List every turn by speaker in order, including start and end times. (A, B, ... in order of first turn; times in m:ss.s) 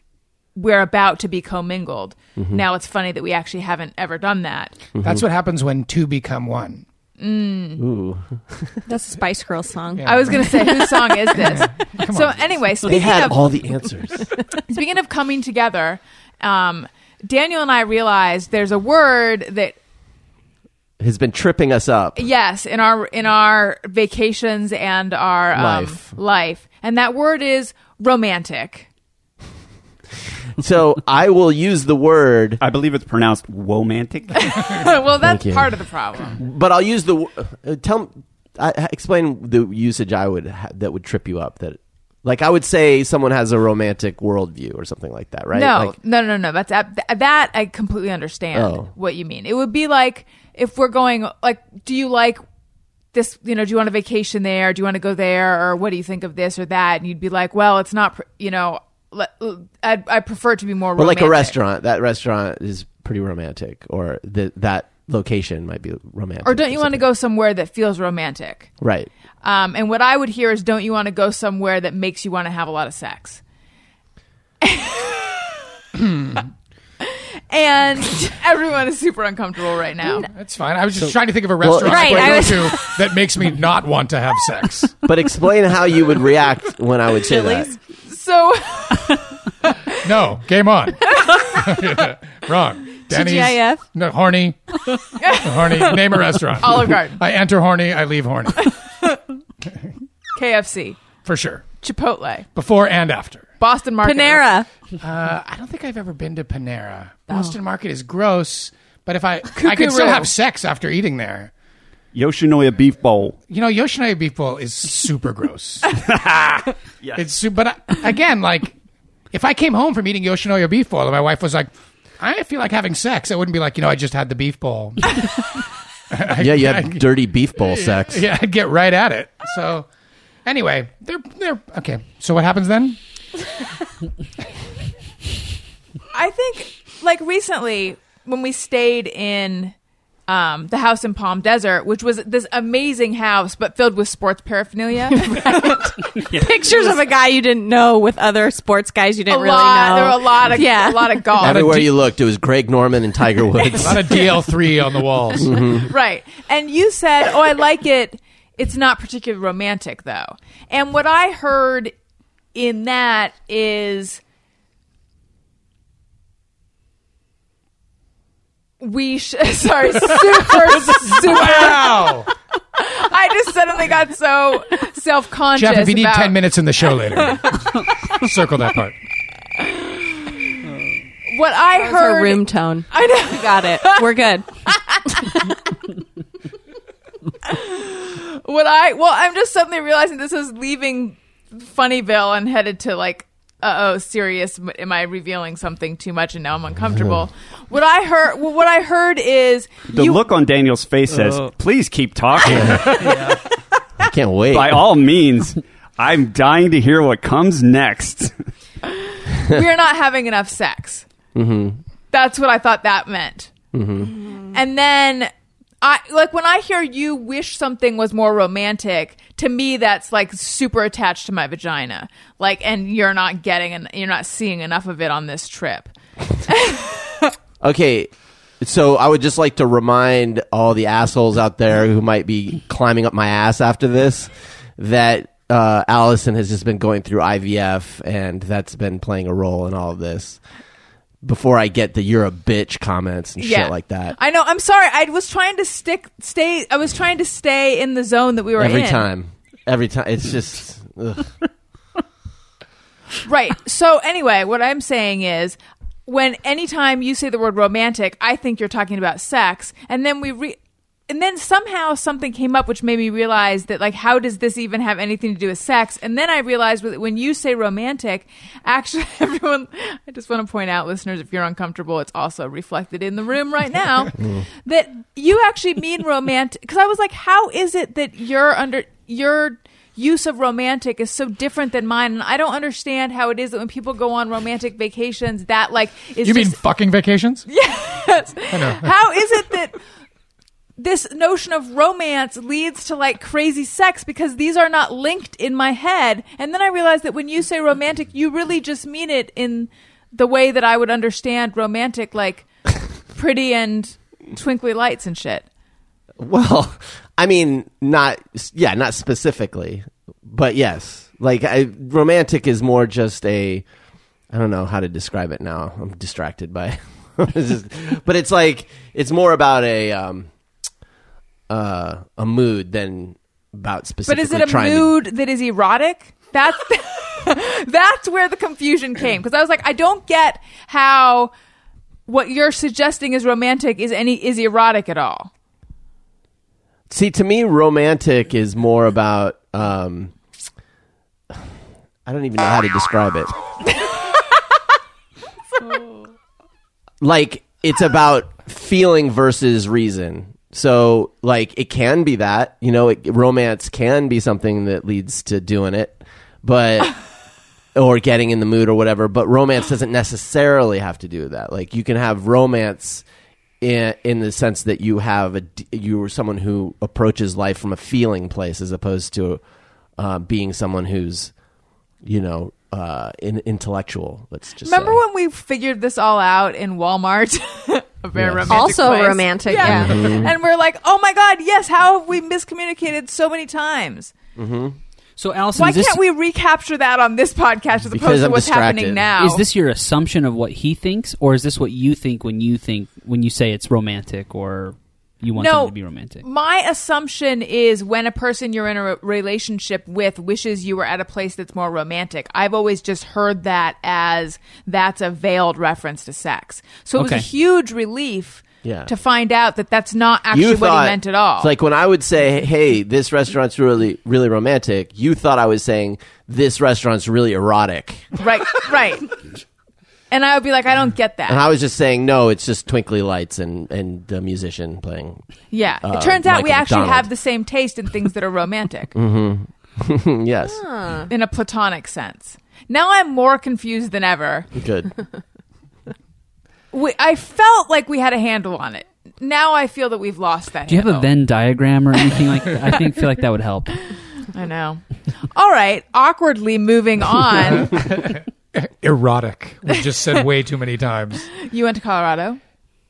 0:00.5-0:04.8 A
0:02.4-0:02.6 B
0:05.0-0:06.8 C
0:07.2-0:07.8 A
0:07.8-0:08.8 B
0:08.8-0:11.1 D
0:10.0-0:10.4 C
0:10.0-0:13.4 A
0:11.4-0:12.4 C
0:12.8-0:14.2 B
0:14.7-0:19.8 A
0:21.0-0:22.2 B
0:22.2-0:28.9 A
0:25.5-0:26.1 B
0:30.6-0:32.6 B
0:32.6-0:34.5 E
0:34.3-0:36.4 A
0:35.2-0:35.7 B
0:36.3-0:45.9 B
0:45.5-0:52.4 A
0:48.5-0:48.9 B
0:53.1-1:01.6 A
1:01.0-1:07.0 B
1:06.4-1:08.7 A
1:08.8-1:09.1 B
1:09.4-1:13.4 A
1:14.6-1:15.5 A
1:15.9-1:16.5 C
1:17.0-1:20.3 A
1:20.3-1:24.9 C
1:21.6-1:22.6 B
1:21.8-1:23.0 D
1:25.0-1:27.7 B
1:27.3-1:27.7 D
1:28.0-1:29.7 A
1:30.0-1:34.6 C
1:33.1-1:33.8 D
1:35.2-1:36.0 A
1:35.4-1:38.7 C
1:36.6-1:37.2 A
1:38.6-1:39.2 A
1:40.3-1:41.0 A
1:41.2-1:41.6 C
1:41.8-1:42.5 A
1:42.5-1:43.4 C
1:43.6-1:44.5 A
1:44.0-1:44.7 D
1:45.0-1:51.5 C
1:49.5-1:50.3 A
1:52.1-1:53.4 E
1:53.5-1:56.0 C
1:56.1-1:57.2 E
1:57.2-1:58.7 C
1:59.3-2:05.2 C
2:06.1-2:07.0 C
2:06.4-2:08.2 B
2:07.7-2:09.9 C
2:10.4-2:13.0 C
2:16.1-2:19.7 A
2:20.3-2:25.9 A
2:25.1-2:31.4 D
2:29.3-2:31.8 A
2:31.4-2:34.2 B
2:31.4-2:31.9 C
2:33.8-2:35.5 C
2:35.4-2:35.9 B
2:35.9-2:41.9 A
2:42.5-2:44.2 A
2:48.8-2:52.1 A
2:50.4-2:52.3 C
2:52.8-2:56.4 A
2:55.5-2:58.9 C
2:57.3-2:57.6 A
2:59.6-3:00.6 A
3:01.3-3:05.5 A
3:01.8-3:04.5 D
3:05.1-3:05.4 D
3:07.4-3:20.2 A
3:16.9-3:17.2 B
3:19.9-3:23.1 E
3:24.1-3:24.8 B
3:24.5-3:28.3 E
3:28.9-3:31.0 A
3:31.3-3:31.8 B
3:32.1-3:33.5 A
3:33.7-3:34.1 B
3:34.5-3:35.3 A
3:35.8-3:45.9 A
3:46.5-3:47.3 A
3:47.6-4:00.4 B
4:01.2-4:04.2 B
4:03.4-4:09.1 A
4:08.6-4:11.3 B
4:13.2-4:20.6 A
4:21.1-4:34.1 A
4:34.2-4:34.4 B
4:34.6-4:46.6 A
4:46.2-4:47.4 C
4:47.5-4:49.8 A
4:48.5-4:48.9 C
4:50.8-5:02.5 A
5:03.1-5:05.4 A
5:06.2-5:13.6 B
5:14.3-5:20.3 B
5:21.5-5:25.0 B
5:24.0-5:31.3 A
5:32.1-5:35.3 A
5:36.9-5:40.1 B
5:42.0-5:43.3 B
5:47.0-5:56.9 B
5:57.7-6:03.0 B
6:03.6-6:09.4 B
6:10.0-6:11.3 B
6:12.0-6:15.0 B
6:14.6-6:24.1 A
6:18.1-6:18.7 B
6:18.5-6:20.2 D
6:19.6-6:20.3 B
6:24.4-6:24.8 B
6:25.2-6:26.0 F
6:25.6-6:29.4 A
6:27.9-6:29.1 B
6:29.2-6:36.2 F
6:35.4-6:51.5 A
6:47.0-6:47.3 F
6:48.6-6:48.9 B
6:50.3-6:58.1 B
6:58.2-6:59.1 A
7:00.1-7:01.4 A
7:01.3-7:05.2 B
7:05.5-7:08.9 A
7:05.8-7:07.1 B
7:08.9-7:10.6 B
7:10.4-7:11.1 D
7:11.1-7:14.5 A
7:14.5-7:14.9 B
7:16.7-7:21.1 A
7:20.7-7:23.8 F
7:24.2-7:27.8 A
7:27.5-7:31.3 C
7:31.3-7:32.4 A